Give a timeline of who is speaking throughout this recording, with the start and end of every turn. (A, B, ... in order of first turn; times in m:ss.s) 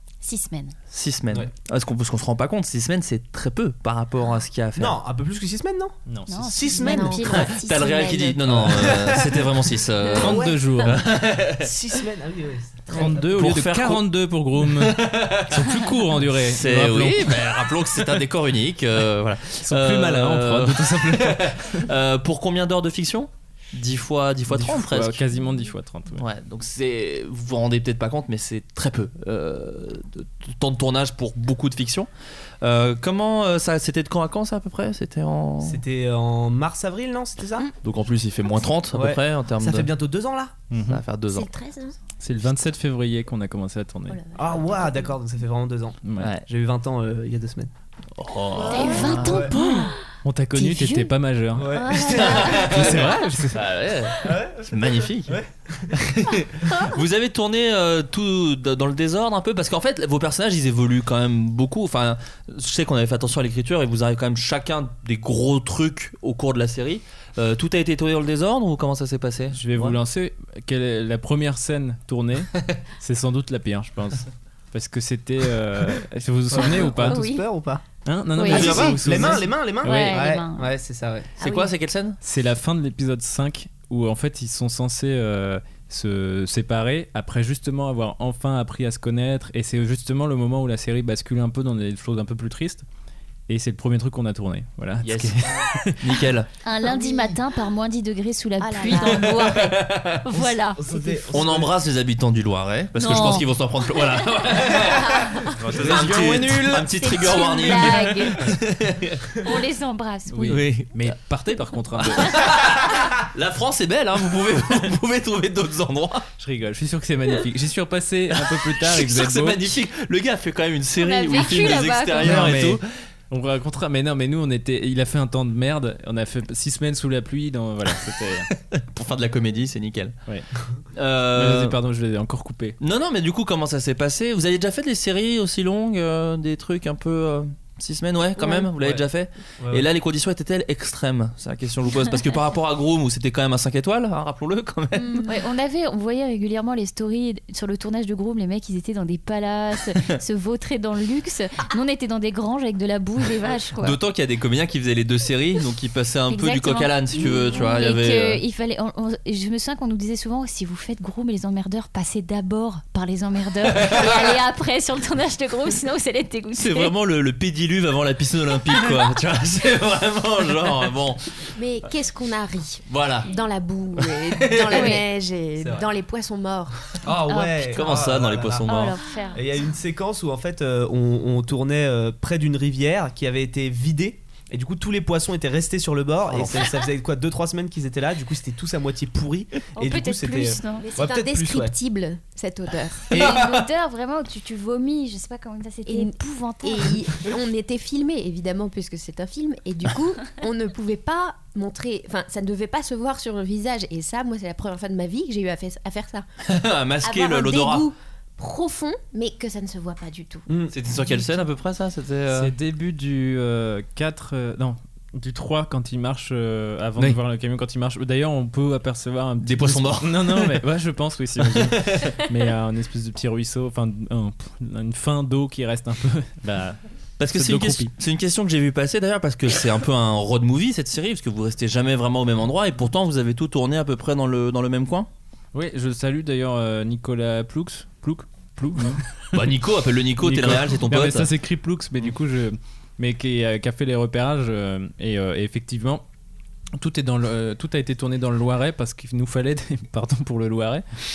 0:00.2-0:00.7 A
0:00.9-0:05.0 B
0:04.8-0:07.2 C
0:06.1-0:06.4 D
0:06.3-0:07.5 A
0:06.7-0:08.7 E
0:07.3-0:11.7 B
0:08.5-0:10.6 C
0:10.2-0:11.0 D
0:11.6-0:13.3 C
0:12.9-0:17.7 D
0:13.3-0:14.0 B
0:14.6-0:15.6 B
0:16.3-0:25.2 B
0:19.6-0:21.8 D
0:24.5-0:26.2 D
0:26.2-0:32.1 B
0:32.6-0:35.8 B
0:35.6-0:37.7 C
0:37.8-0:39.9 B
0:38.9-0:40.5 C
0:40.7-0:41.0 D
0:40.9-0:41.5 B
0:41.3-0:42.0 E
0:42.2-0:44.2 D
0:44.1-0:45.1 E
0:44.4-0:47.7 C
0:46.0-0:46.3 D
0:46.2-0:46.4 B
0:48.2-0:49.5 B
0:48.5-0:49.5 C
0:48.7-0:50.0 A
0:48.7-0:49.3 E
0:50.2-0:51.7 D
0:50.5-0:51.1 A
0:51.6-0:53.0 C
0:51.7-0:52.7 A
0:52.2-0:55.4 B
0:52.6-0:53.6 D
0:54.2-0:56.1 C
0:56.0-1:10.0 B
1:09.5-1:17.2 D
1:16.5-1:17.8 C
1:16.8-1:17.4 A
1:18.0-1:20.2 D
1:18.4-1:20.7 A
1:18.4-1:21.3 C
1:18.6-1:18.9 B
1:21.4-1:22.2 B
1:22.2-1:32.8 D
1:33.5-1:36.1 D
1:35.0-1:36.5 B
1:36.6-1:40.8 A
1:36.8-1:37.4 E
1:38.6-1:39.6 E
1:39.3-1:40.2 B
1:40.3-1:41.7 C
1:40.9-1:41.2 E
1:41.3-1:49.3 B
1:43.0-1:43.5 A
1:45.6-1:46.9 D
1:46.6-1:48.6 A
1:49.4-1:50.6 A
1:50.3-1:52.4 D
1:50.5-1:51.1 B
1:52.0-1:56.2 B
1:56.4-1:59.7 D
1:58.3-2:02.9 B
2:01.0-2:02.5 A
2:02.2-2:08.5 D
2:08.5-2:10.2 B
2:10.9-2:11.7 B
2:11.3-2:12.8 D
2:12.8-2:25.2 B
2:18.4-2:18.7 E
2:18.8-2:19.0 C
2:19.6-2:19.8 C
2:25.0-2:25.3 E
2:25.2-2:34.0 A
2:33.8-2:38.4 B
2:36.3-2:46.9 A
2:43.8-2:44.2 B
2:46.6-2:51.5 B
2:51.5-2:56.9 E
2:52.9-2:53.3 B
2:54.0-2:55.0 B
2:54.7-2:55.0 A
2:57.0-3:11.7 C
2:57.3-2:58.0 A
2:57.7-2:59.0 B
2:58.6-2:59.4 A
3:06.3-3:06.6 B
3:09.8-3:10.9 A
3:10.8-3:13.2 E
3:13.1-3:17.0 A
3:13.2-3:13.5 B
3:13.2-3:13.6 C
3:15.8-3:26.3 E
3:26.4-3:27.9 B
3:27.0-3:30.5 E
3:30.5-3:30.7 C
3:30.7-3:32.5 B
3:32.3-3:46.8 D
3:39.4-3:40.6 B
3:41.4-3:42.2 B
3:47.2-3:55.1 B
3:47.3-3:47.9 D
3:55.5-3:59.4 D
3:58.8-4:01.3 B
4:00.2-4:06.0 D
4:06.8-4:10.8 D